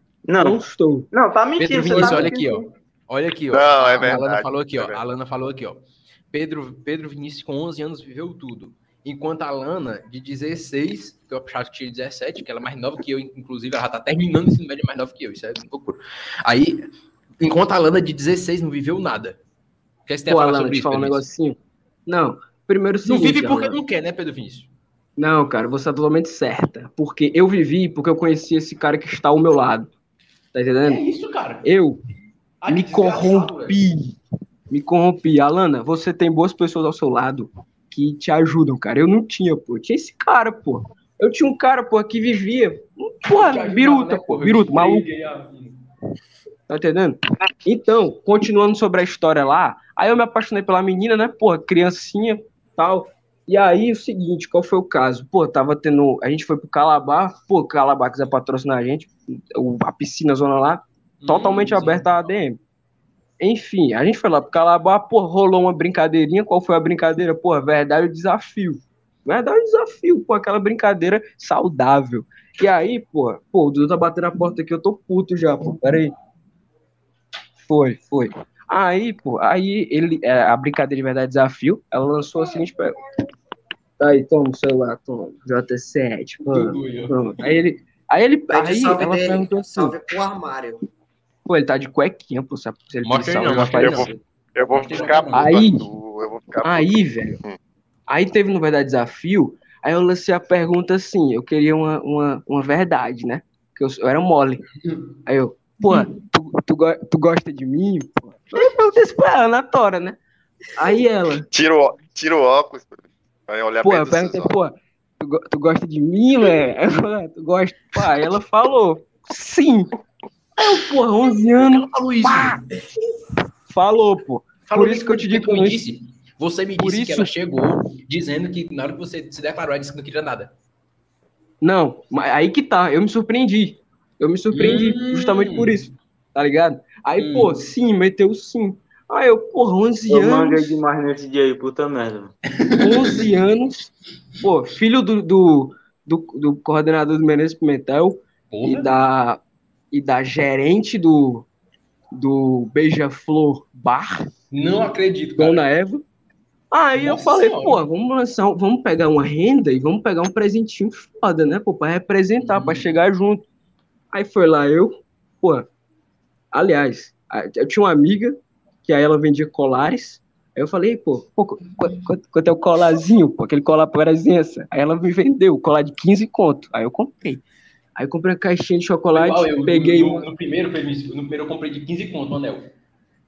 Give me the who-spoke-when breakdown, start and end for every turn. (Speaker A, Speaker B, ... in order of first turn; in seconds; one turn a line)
Speaker A: 0.2-2.7
Speaker B: 0.4-1.1
Speaker C: 1.6-16.8
Speaker B: 1.8-2.3
Speaker D: 3.5-5.0
Speaker C: 17.4-19.4
Speaker C: 20.1-21.2
Speaker B: 20.3-23.8
Speaker C: 23.0-24.7
Speaker B: 25.2-29.9
Speaker B: 30.5-31.0
Speaker C: 30.8-31.6
Speaker B: 31.6-32.0
Speaker C: 32.6-33.8
Speaker B: 32.7-34.2
Speaker B: 34.7-45.0
Speaker C: 43.3-45.8
Speaker B: 46.7-62.6
Speaker C: 61.2-62.1
Speaker B: 63.4-76.1
Speaker B: 77.6-83.0
Speaker B: 84.0-90.0
Speaker C: 86.5-87.2
Speaker E: 88.5-90.8
Speaker B: 91.5-94.2
Speaker C: 93.0-94.1
Speaker D: 93.7-97.6
Speaker C: 94.7-95.6
Speaker B: 95.3-95.8
Speaker B: 96.6-97.4
Speaker B: 98.1-104.7
Speaker B: 105.2-110.2
Speaker B: 110.7-111.5
Speaker D: 111.5-114.5
Speaker B: 113.8-119.9
Speaker B: 120.6-122.6
Speaker C: 121.6-122.6
Speaker B: 123.7-125.8
Speaker C: 124.7-130.5
Speaker B: 126.8-127.3
Speaker B: 131.6-140.8
Speaker C: 134.5-135.8
Speaker C: 137.2-137.6
Speaker A: 140.1-142.3
Speaker C: 142.6-143.2
Speaker B: 142.8-149.4
Speaker C: 148.5-148.9
Speaker B: 149.9-151.4
Speaker B: 152.1-154.2
Speaker C: 154.5-155.6
Speaker B: 155.4-156.0
Speaker B: 156.7-163.4
Speaker C: 156.9-157.8
Speaker C: 162.4-162.9
Speaker B: 164.1-165.7
Speaker B: 166.5-177.4
Speaker B: 177.9-180.2
Speaker C: 179.1-182.7